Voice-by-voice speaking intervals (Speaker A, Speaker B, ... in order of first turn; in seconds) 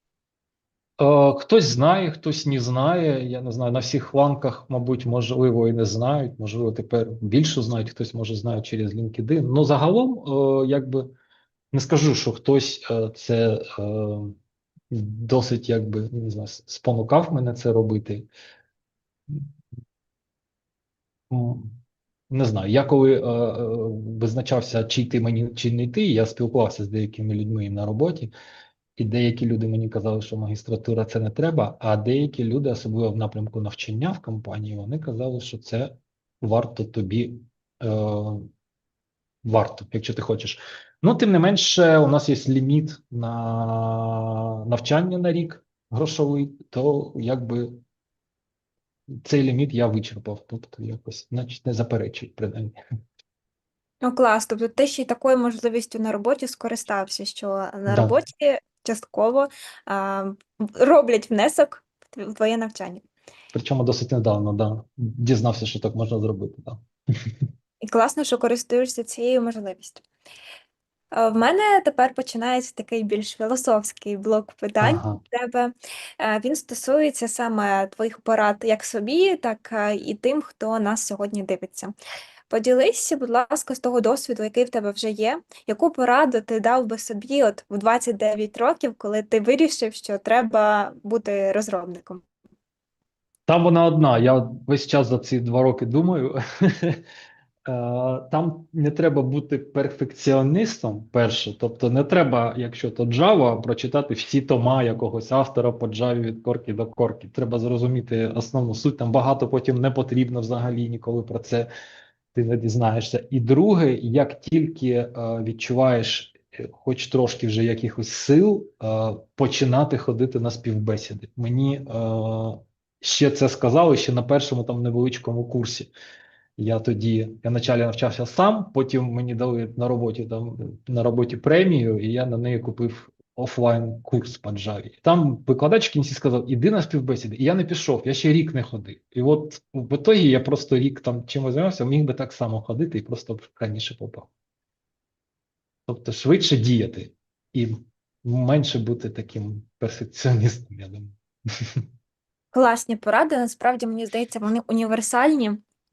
Speaker A: 1.0-11.1, 11.7-14.4, 14.9-18.3, 21.3-21.8, 22.3-28.3, 29.0-38.5, 39.4-47.8, 49.2-52.8, 57.9-58.2, 63.5-67.3, 74.8-75.2, 93.5-97.0, 97.7-111.7, 112.3-125.9, 126.6-144.3, 145.9-151.8
Speaker B: 54.0-63.0, 67.8-70.0, 71.1-81.9, 82.5-92.2, 152.5-155.6